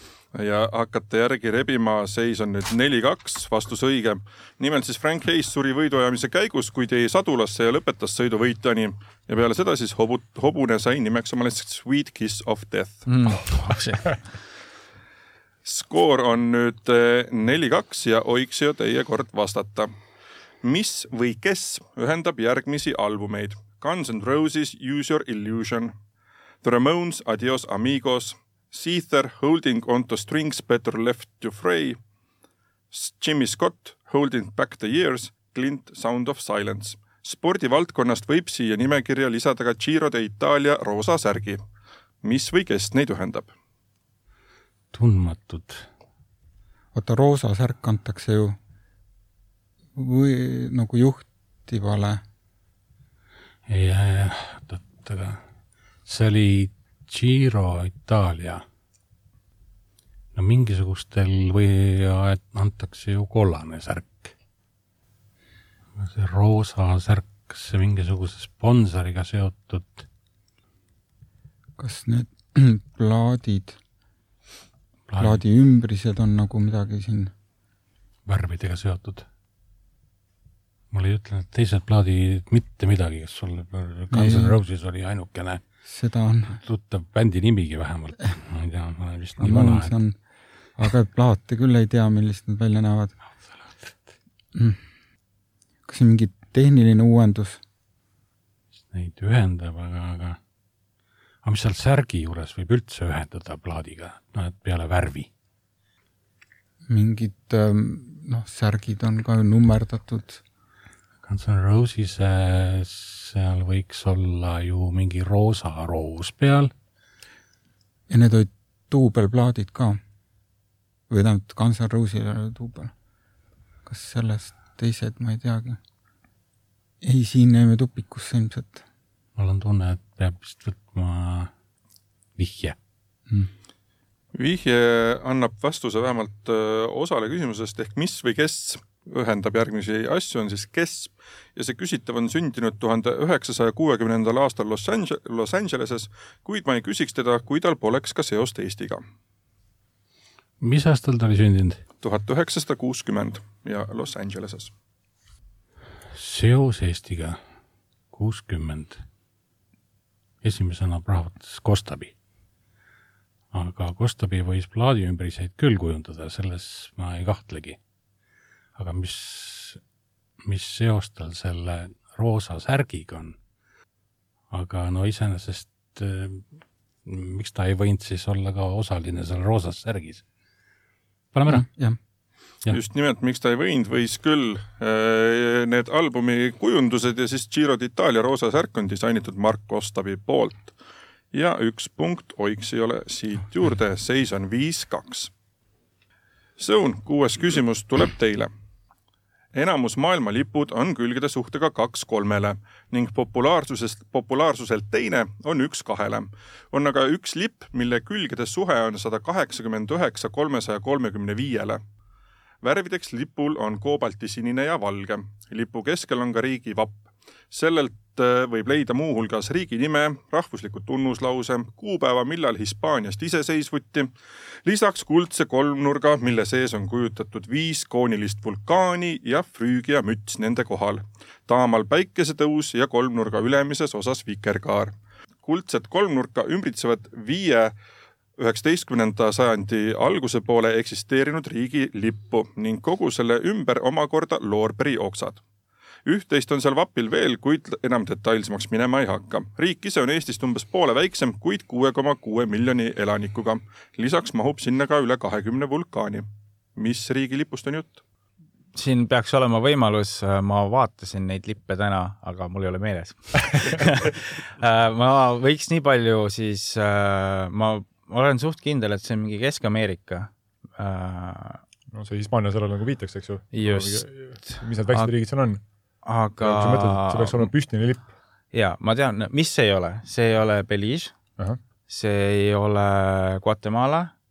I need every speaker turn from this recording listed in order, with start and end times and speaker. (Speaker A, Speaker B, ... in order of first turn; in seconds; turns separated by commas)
Speaker A: 0.3-13.1, Speaker B: 13.1-14.2, Speaker A: 15.6-19.9, Speaker A: 20.6-25.9, Speaker A: 26.6-32.0, Speaker A: 32.9-41.6, Speaker A: 42.2-43.5, Speaker C: 44.9-45.8, Speaker D: 46.9-48.5, Speaker D: 49.9-52.2, Speaker C: 53.7-55.4, Speaker C: 56.0-58.6, Speaker C: 60.3-64.3, Speaker C: 66.0-70.0, Speaker D: 71.8-73.8, Speaker C: 75.1-75.4, Speaker D: 75.2-77.3, Speaker C: 78.3-79.2, Speaker C: 80.9-85.6, Speaker D: 84.1-84.6, Speaker D: 85.8-86.6, Speaker C: 86.5-89.9, Speaker D: 89.4-90.2, Speaker D: 90.8-93.1, Speaker C: 93.6-94.1, Speaker D: 94.5-94.8, Speaker D: 95.8-97.6, Speaker C: 98.8-100.4, Speaker C: 101.4-105.3, Speaker D: 106.9-110.4, Speaker C: 111.2-116.7, Speaker D: 118.1-120.0, Speaker D: 121.1-122.9, Speaker D: 123.8-125.8, Speaker D: 127.0-128.8, Speaker C: 129.4-131.5, Speaker C: 132.4-132.8, Speaker A: 134.3-149.0, Speaker C: 150.6-151.8, Speaker A: 152.0-154.7, Speaker C: 156.1-157.4, Speaker C: 158.1-159.0, Speaker C: 160.4-162.1, Speaker C: 163.5-167.8, Speaker C: 168.7-169.8, Speaker C: 170.4-173.3, Speaker C: 174.5-176.5, Speaker C: 177.0-180.2, Speaker C: 181.3-181.7, Speaker D: 181.4-182.0, Speaker A: 182.7-190.7, Speaker A: 191.3-195.3, Speaker A: 196.6-198.5, Speaker A: 199.5-211.8, Speaker A: 212.6-216.9, Speaker A: 217.5-224.1, Speaker A: 224.6-237.7, Speaker A: 238.4-245.4, Speaker A: 246.0-258.0, Speaker B: 258.7-271.6, Speaker E: 271.9-275.6, Speaker B: 273.5-275.1, Speaker B: 276.0-277.5, Speaker E: 276.4-278.1, Speaker B: 278.5-281.1, Speaker B: 281.9-284.1